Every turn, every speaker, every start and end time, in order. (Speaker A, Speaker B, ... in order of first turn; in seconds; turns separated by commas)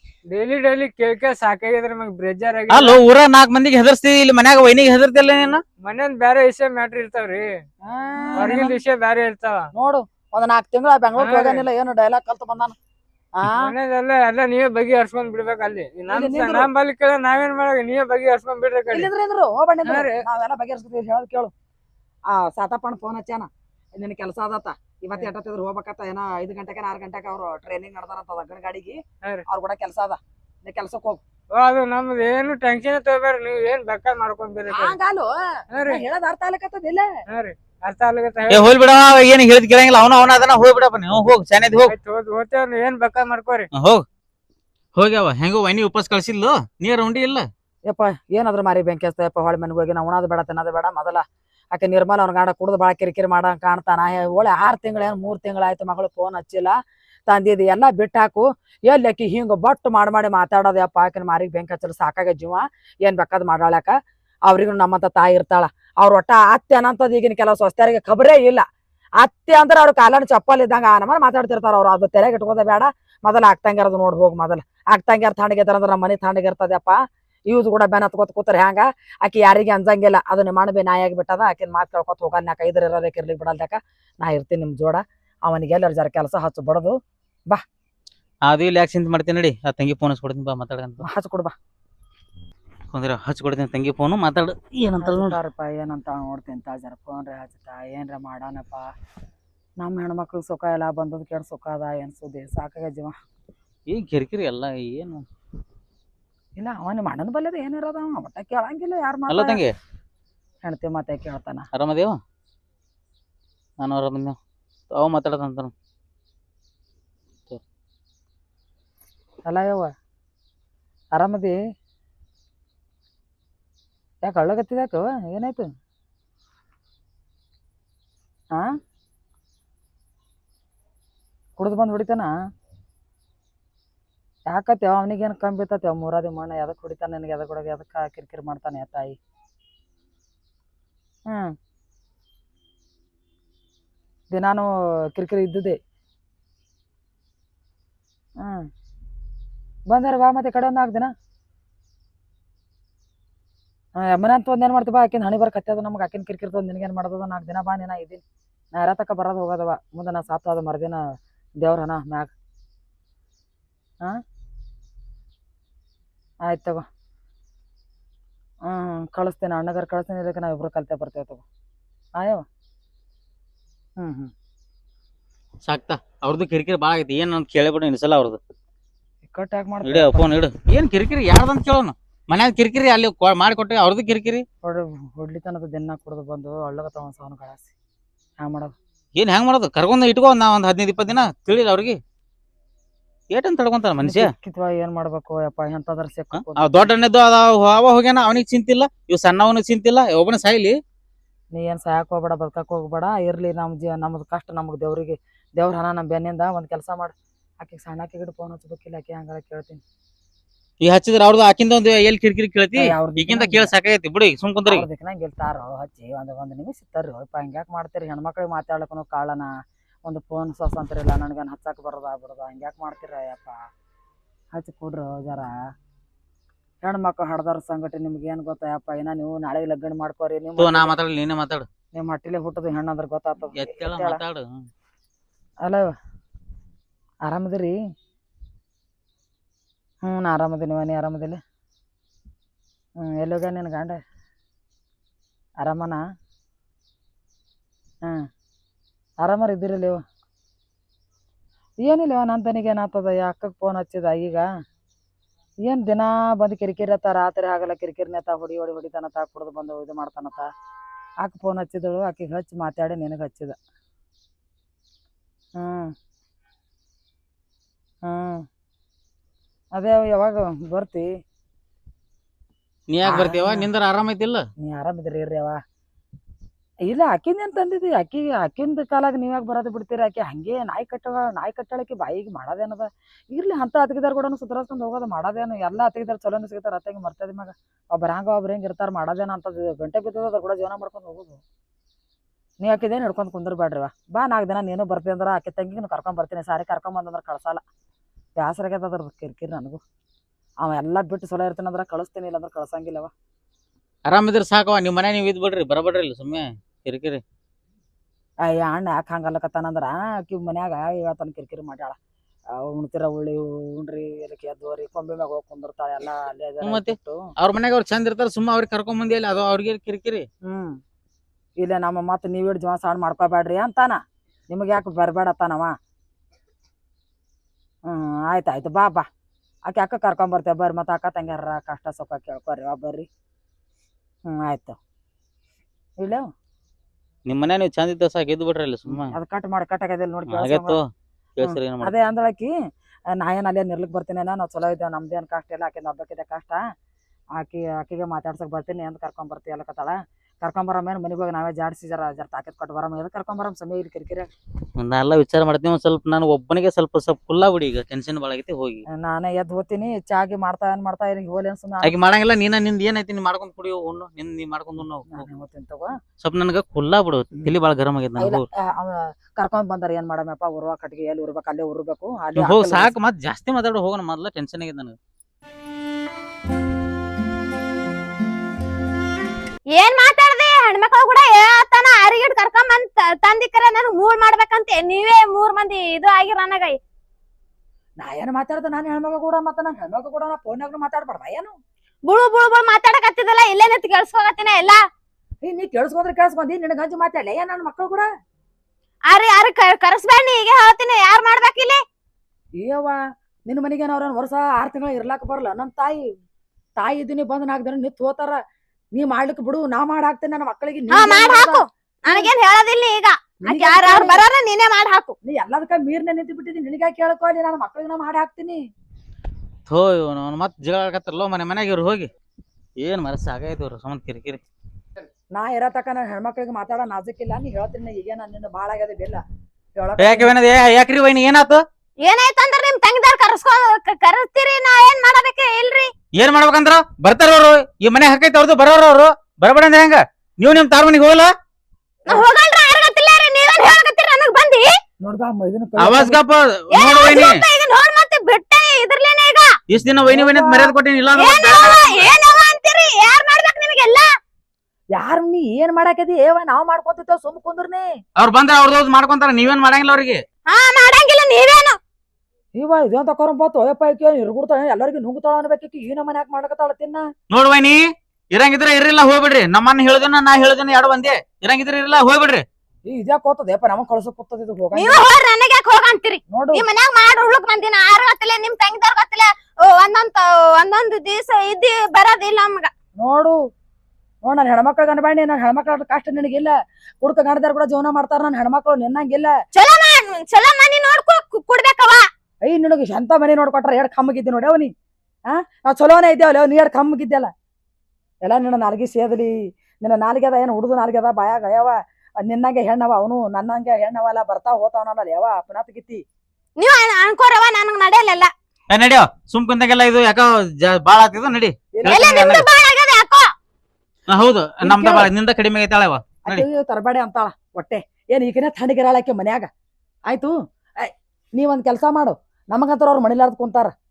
Speaker A: 0.3-3.0, Speaker B: 2.7-5.6, Speaker A: 5.8-7.5, Speaker C: 7.8-8.7, Speaker A: 8.3-9.7, Speaker C: 9.7-12.8, Speaker A: 11.2-11.6, Speaker C: 13.3-13.7, Speaker A: 13.5-19.1, Speaker C: 16.1-16.7, Speaker C: 18.9-21.5, Speaker A: 19.9-20.1, Speaker C: 22.3-31.2, Speaker A: 31.6-34.9, Speaker C: 34.7-35.3, Speaker A: 35.7-36.0, Speaker C: 35.9-37.1, Speaker A: 37.3-38.7, Speaker B: 38.5-41.9, Speaker A: 41.8-43.7, Speaker B: 43.7-44.0, Speaker B: 45.0-47.5, Speaker C: 47.9-56.7, Speaker C: 57.3-63.9, Speaker C: 64.5-68.6, Speaker C: 69.2-77.0, Speaker C: 77.5-87.0, Speaker B: 88.5-91.0, Speaker C: 91.0-91.5, Speaker B: 92.9-95.4, Speaker C: 95.0-98.9, Speaker C: 99.8-103.1, Speaker B: 103.9-105.2, Speaker C: 106.6-109.6, Speaker B: 109.3-109.7, Speaker C: 110.6-111.7, Speaker B: 111.7-112.2, Speaker B: 113.8-114.3, Speaker B: 114.9-115.7, Speaker C: 119.5-119.9, Speaker C: 121.1-121.6, Speaker C: 124.2-125.7, Speaker C: 131.6-132.3, Speaker C: 134.5-139.2, Speaker C: 144.3-145.8, Speaker C: 148.4-148.7, Speaker C: 149.9-151.1, Speaker C: 154.0-158.2, Speaker C: 158.8-161.0, Speaker C: 161.6-162.3, Speaker C: 166.5-166.8, Speaker C: 168.7-171.4, Speaker C: 172.2-172.4, Speaker C: 174.0-174.3, Speaker B: 175.6-178.4, Speaker C: 179.3-180.3, Speaker B: 179.8-184.4, Speaker C: 184.6-187.7, Speaker C: 188.4-188.7, Speaker B: 189.2-192.0, Speaker B: 193.3-194.3, Speaker C: 194.0-196.9, Speaker B: 196.4-200.8, Speaker C: 201.5-209.8, Speaker B: 210.8-214.8, Speaker C: 212.7-213.7, Speaker C: 214.7-219.5, Speaker C: 220.0-223.6, Speaker C: 224.5-225.5, Speaker C: 226.8-230.9, Speaker B: 230.6-231.7, Speaker C: 231.9-234.2, Speaker B: 233.6-234.6, Speaker C: 235.6-235.9, Speaker C: 237.2-237.7, Speaker C: 240.1-241.4, Speaker C: 243.0-244.0, Speaker C: 245.6-246.0, Speaker C: 249.2-250.0, Speaker C: 251.8-254.4, Speaker C: 255.7-260.5, Speaker C: 261.2-263.6, Speaker C: 265.6-265.9, Speaker C: 268.1-268.4, Speaker C: 269.7-271.1, Speaker B: 272.9-274.4, Speaker C: 273.0-273.7, Speaker C: 274.6-275.6, Speaker C: 276.9-291.4, Speaker C: 292.6-297.6, Speaker C: 298.4-299.8, Speaker C: 300.6-303.1, Speaker B: 304.1-307.2, Speaker C: 308.4-312.0, Speaker C: 312.5-317.2, Speaker B: 316.6-320.3, Speaker C: 320.4-320.8, Speaker C: 321.6-325.7, Speaker C: 327.9-329.1, Speaker C: 329.7-333.1, Speaker C: 334.2-334.8, Speaker C: 336.0-336.3, Speaker B: 337.2-339.1, Speaker C: 338.9-340.8, Speaker B: 340.3-340.8, Speaker B: 341.4-341.9, Speaker C: 341.4-342.5, Speaker C: 343.1-346.6, Speaker C: 347.4-354.3, Speaker B: 354.8-358.8, Speaker C: 358.9-361.9, Speaker B: 361.8-365.2, Speaker C: 365.1-365.9, Speaker B: 366.2-368.4, Speaker C: 368.2-372.9, Speaker B: 372.4-374.9, Speaker D: 379.8-386.8, Speaker C: 388.0-391.5, Speaker D: 392.1-394.8, Speaker C: 395.4-398.1, Speaker D: 399.1-401.8, Speaker C: 402.6-403.0, Speaker C: 403.5-406.1, Speaker C: 406.8-408.4, Speaker C: 408.9-412.3, Speaker D: 410.9-415.1, Speaker C: 413.4-414.2, Speaker C: 415.2-418.6, Speaker B: 419.7-422.1, Speaker B: 422.8-424.4, Speaker C: 425.3-429.2, Speaker C: 429.8-430.3, Speaker B: 430.0-431.6, Speaker D: 432.0-435.9, Speaker B: 436.2-441.3, Speaker D: 442.1-444.7, Speaker C: 445.0-446.2, Speaker B: 445.8-447.4, Speaker D: 446.7-449.5, Speaker B: 449.7-452.1, Speaker C: 450.1-450.7, Speaker D: 451.1-454.1, Speaker C: 454.9-457.9, Speaker B: 458.2-460.2, Speaker D: 460.5-461.8, Speaker C: 462.6-467.1, Speaker B: 467.3-467.8, Speaker B: 468.3-472.4, Speaker C: 472.9-475.0, Speaker D: 474.7-482.7, Speaker C: 476.3-476.6, Speaker C: 483.0-483.4, Speaker C: 484.2-489.4, Speaker D: 489.5-492.1, Speaker C: 492.4-494.7, Speaker C: 495.3-497.3, Speaker C: 498.2-506.0, Speaker D: 506.6-508.3, Speaker B: 508.7-512.5, Speaker C: 511.7-512.0, Speaker D: 511.9-513.3, Speaker B: 514.1-516.5, Speaker C: 514.6-515.1, Speaker C: 516.2-519.5, Speaker C: 520.1-523.7